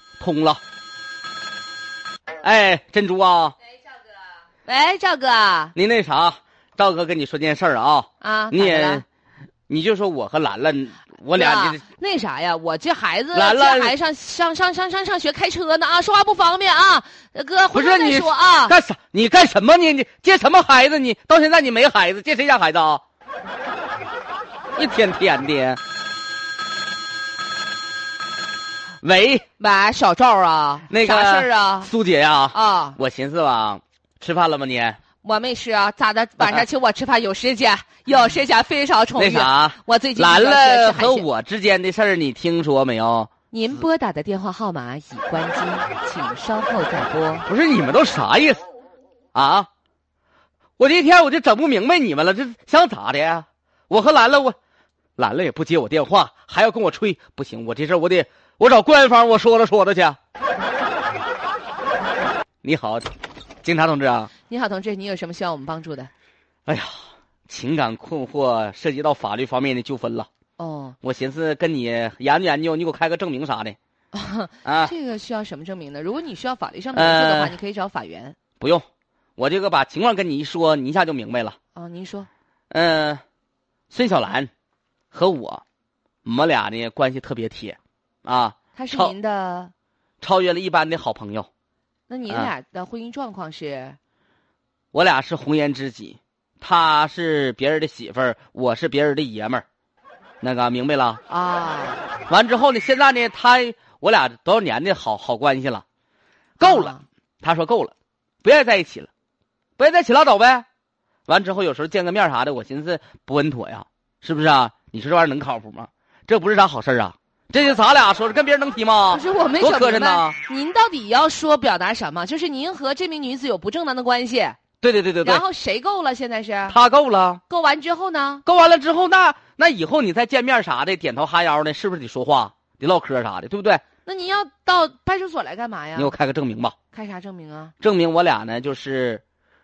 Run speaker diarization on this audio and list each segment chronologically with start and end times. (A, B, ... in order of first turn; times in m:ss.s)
0:00.2-0:00.6 A
0:02.4-0:03.6 A
0:04.6-0:05.7 B
0:05.8-0:09.0 A
0:08.2-0:09.0 B
0:09.7-0:11.8 A
0:11.4-0:18.8 B
0:13.3-0:14.0 A
0:17.7-0:23.0 A
0:24.8-0:25.8 A
0:29.0-0:29.4 A
0:29.6-0:31.9 B
0:30.9-0:35.0 A
0:32.5-0:33.0 B
0:35.2-0:41.3 B
0:39.2-0:43.3 A
0:43.5-0:47.5 B
0:47.5-0:48.6 A
0:49.3-0:49.7 A
0:50.8-0:54.6 A
0:55.2-1:00.2 A
1:02.6-1:03.1 A
1:03.6-1:04.3 A
1:04.5-1:06.1 B
1:06.7-1:10.3 A
1:10.6-1:11.0 B
1:11.0-1:13.8 A
1:14.1-1:18.4 B
1:14.6-1:14.9 A
1:16.9-1:17.6 A
1:18.6-1:18.8 A
1:19.4-1:21.6 A
1:21.8-1:22.3 B
1:22.7-1:23.2 A
1:23.9-1:24.5 A
1:25.1-1:25.6 A
1:26.2-1:29.1 A
1:28.8-1:29.7 B
1:30.2-1:31.5 A
1:32.1-1:34.0 B
1:34.9-1:39.6 A
1:40.4-1:41.2 A
1:41.3-1:42.0 B
1:42.3-1:45.8 A
1:46.6-1:49.1 A
1:46.6-1:47.0 B
1:49.8-1:50.6 A
1:51.3-2:00.4 A
1:59.1-2:04.6 B
2:04.8-2:05.4 A
2:05.2-2:06.8 B
2:06.7-2:07.4 A
2:07.5-2:08.4 B
2:08.5-2:13.8 A
2:14.0-2:16.2 B
2:16.0-2:16.8 A
2:16.9-2:17.7 B
2:17.8-2:19.2 A